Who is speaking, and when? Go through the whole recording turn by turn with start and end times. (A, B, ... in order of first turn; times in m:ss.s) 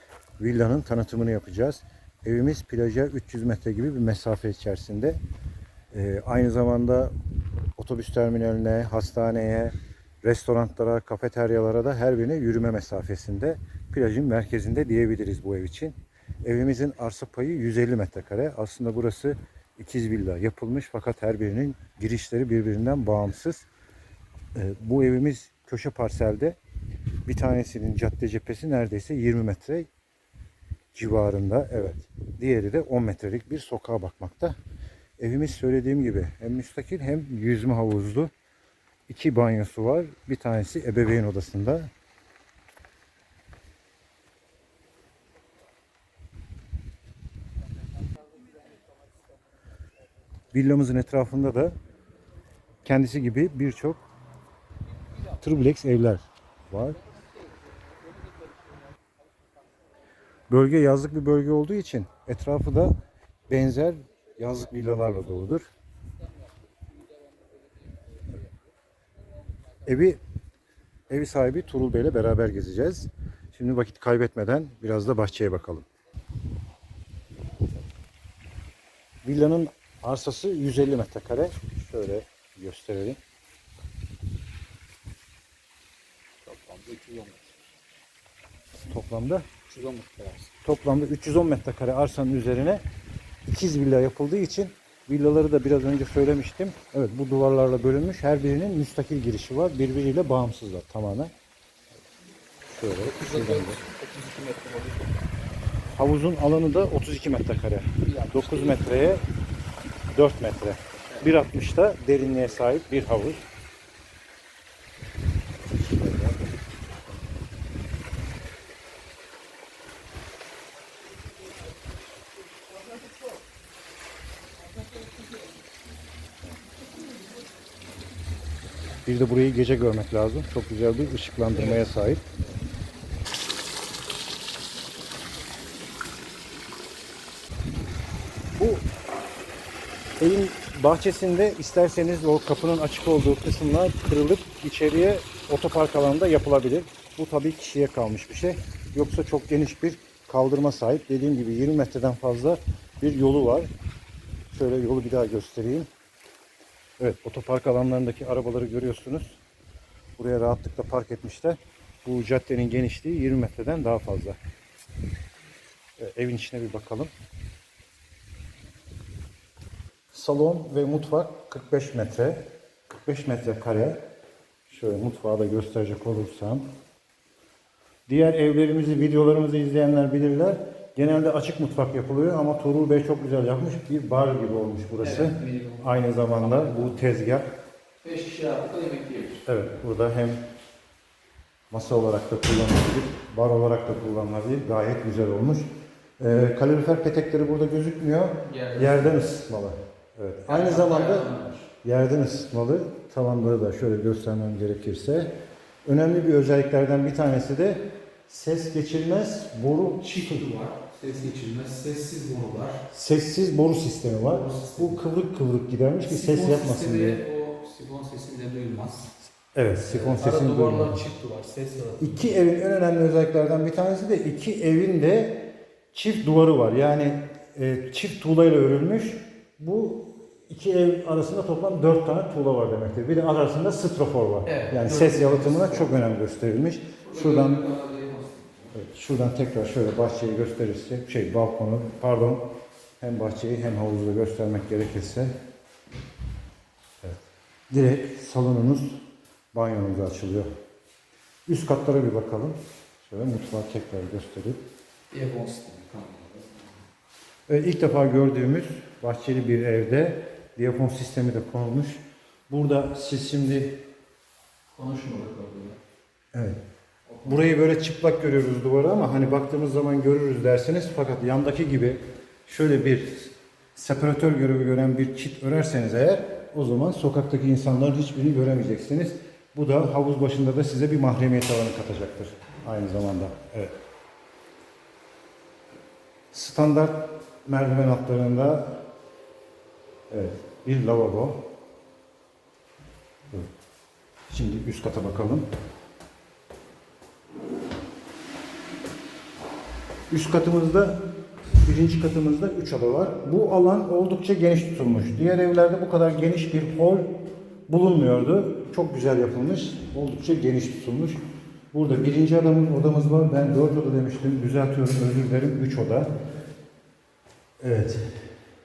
0:00.4-0:05.2 A
0:05.9-0:07.1 A
0:07.8-0:23.7 A
0:24.5-0:26.6 A
0:27.2-0:29.9 A
0:30.9-0:34.6 A
0:35.2-0:38.3 A
0:39.1-0:41.9 A
0:50.5-0:51.8 A
0:52.8-0:54.0 A
0:55.4-0:57.0 A
1:00.5-1:02.9 A
1:03.5-1:05.6 A
1:09.8-1:10.2 A
1:11.1-1:15.8 A
1:19.2-1:23.2 A
1:26.4-1:27.5 B
1:28.9-1:29.5 A
1:29.7-1:30.5 B
1:30.6-1:32.8 A
1:33.4-1:41.3 A
1:42.7-1:43.8 A
1:43.0-1:45.2 B
1:45.9-1:49.2 A
1:48.0-1:49.0 B
1:50.1-1:53.4 A
1:55.7-1:56.4 A
2:09.0-2:12.2 A
2:11.5-2:11.8 B
2:18.6-2:18.8 A
2:20.2-2:33.7 A
2:34.5-2:35.9 A
2:37.0-2:39.4 A
2:40.2-2:44.4 A
2:46.0-2:47.1 A
2:50.1-2:54.0 A
2:54.7-2:56.7 A
2:58.1-3:07.4 A
3:05.0-3:07.0 B
3:08.0-3:09.4 B
3:09.4-3:10.4 A
3:11.7-3:15.6 A
3:16.2-3:21.3 A
3:18.4-3:19.2 B
3:20.4-3:21.7 B
3:21.8-3:25.3 A
3:25.8-3:30.4 A
3:30.0-3:32.8 B
3:32.9-3:37.2 A
3:34.2-3:35.0 B
3:36.0-3:39.1 B
3:39.5-3:41.0 A
3:39.9-3:42.2 B
3:42.0-3:57.6 A
3:54.4-3:55.9 B
3:57.0-3:58.7 B
3:58.7-4:02.5 A
4:03.0-4:05.3 A
4:07.0-4:09.0 A
4:09.5-4:10.5 A
4:11.5-4:14.6 A
4:15.1-4:16.8 B
4:17.5-4:23.8 A
4:24.7-4:25.8 B
4:27.1-4:27.4 B
4:27.2-4:43.7 A
4:46.3-4:48.8 A
4:50.1-4:51.5 A
4:54.3-4:55.4 A
5:00.1-5:01.0 A
5:01.6-5:07.0 A
5:07.7-5:11.2 A
5:11.7-5:16.1 A
5:17.6-5:18.1 A